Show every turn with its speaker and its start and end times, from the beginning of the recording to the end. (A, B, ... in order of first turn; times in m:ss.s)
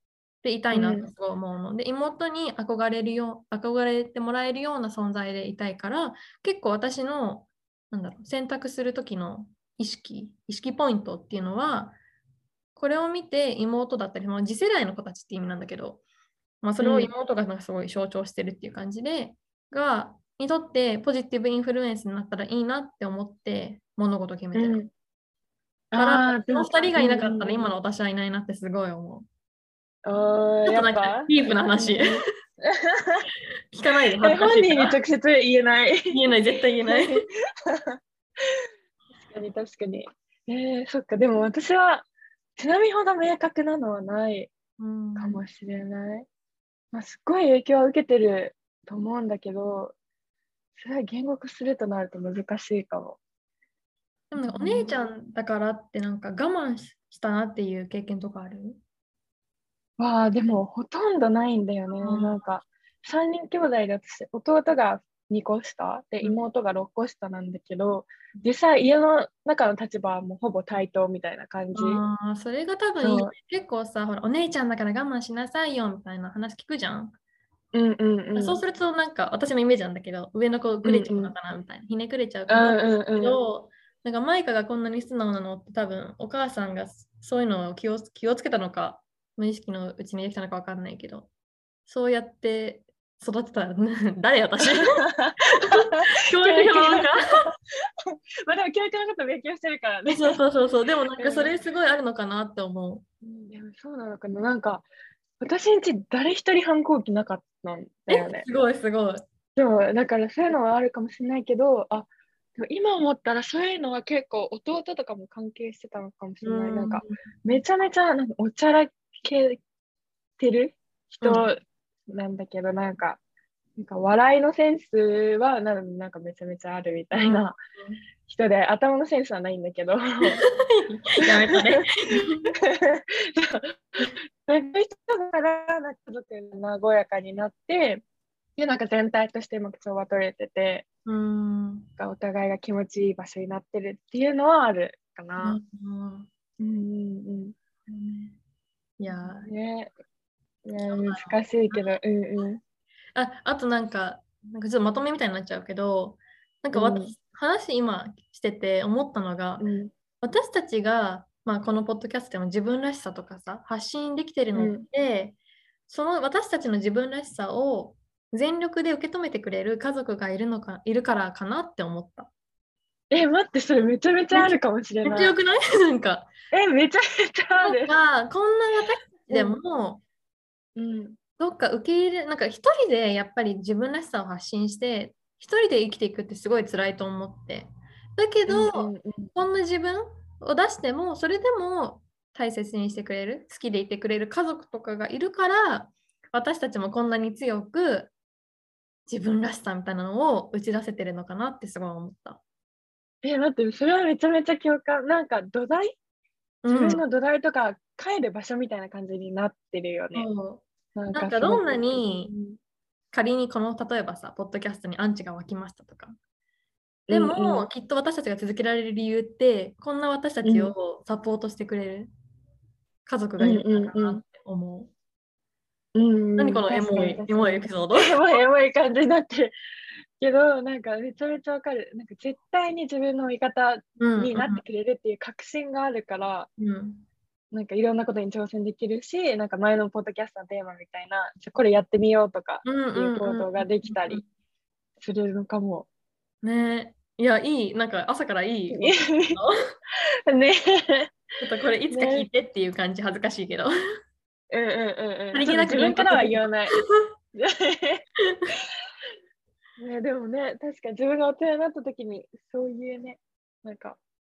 0:00.4-0:12.0 A
0:00.7-0:01.1 B
0:12.8-0:16.0 A
0:16.6-0:24.8 A
0:16.8-0:17.1 B
0:24.5-0:24.9 B
0:25.9-0:27.7 B
0:26.0-0:29.3 A
0:30.1-0:32.2 B
0:30.7-0:32.2 A
0:32.9-0:33.2 B
0:33.7-0:35.0 A
0:34.2-0:36.1 B
0:36.1-0:37.3 A
0:36.9-0:38.0 B
0:39.2-0:44.5 B
0:44.8-0:45.4 A
0:45.2-0:46.3 B
0:46.9-0:50.0 B
0:50.8-0:53.2 B
0:54.3-0:58.8 A
0:54.4-0:55.0 B
1:00.0-1:12.0 B
1:02.0-1:02.4 A
1:11.7-1:17.2 A
1:13.0-1:13.3 B
1:17.7-1:18.6 B
1:18.4-1:31.3 A
1:20.8-1:21.3 B
1:22.5-1:23.4 B
1:31.9-1:35.0 A
1:34.7-1:35.7 B
1:35.7-1:37.2 A
1:36.4-1:37.2 B
1:38.5-1:40.4 B
1:40.1-1:43.0 A
1:41.2-1:41.6 B
1:43.2-1:44.9 B
1:45.4-1:48.5 B
1:48.1-1:49.2 A
1:49.6-1:59.6 B
1:56.4-1:57.1 A
2:00.4-2:03.2 B
2:01.2-2:01.5 A
2:03.8-2:07.6 B
2:07.1-2:08.0 A
2:08.3-2:10.4 B
2:10.4-2:12.5 A
2:11.3-2:11.6 B
2:12.7-2:13.8 B
2:14.4-2:18.0 B
2:18.6-2:20.9 B
2:21.1-2:21.9 A
2:22.0-2:25.6 B
2:25.4-2:26.3 A
2:26.6-2:27.6 B
2:27.9-2:28.4 A
2:29.0-2:29.5 A
2:29.3-2:29.9 B
2:30.6-2:32.6 B
2:30.8-2:31.8 A
2:33.2-2:39.6 A
2:36.7-2:37.2 B
2:39.6-2:39.9 B
2:40.2-2:45.4 A
2:44.6-2:44.8 B
2:45.9-2:52.3 A
2:53.1-2:55.4 B
2:55.0-2:56.3 A
2:56.5-2:58.0 B
2:57.6-3:00.0 A
2:59.3-2:59.6 B
3:00.8-3:01.2 B
3:01.4-3:18.1 A
3:08.5-3:09.3 B
3:19.1-3:22.4 A
3:23.2-3:26.0 B
3:26.6-3:27.0 A
3:26.7-3:30.3 B
3:30.1-3:32.3 A
3:31.0-3:32.6 B
3:33.1-3:36.2 A
3:37.1-3:37.7 B
3:37.1-3:42.1 A
3:40.4-3:40.7 B
3:43.1-3:44.9 A
3:43.4-3:44.2 B
3:46.0-3:49.6 B
3:46.4-3:48.2 A
3:50.2-3:56.5 B
3:54.0-3:54.6 A
3:56.6-3:57.1 A
3:57.5-4:04.2 B
4:02.6-4:04.2 A
4:05.0-4:05.9 B
4:06.4-4:09.6 A
4:08.7-4:09.4 B
4:10.3-4:11.1 B
4:11.4-4:13.7 A
4:11.9-4:12.3 B
4:14.5-4:16.8 B
4:15.3-4:16.8 A
4:17.4-4:18.0 B
4:19.8-4:24.0 B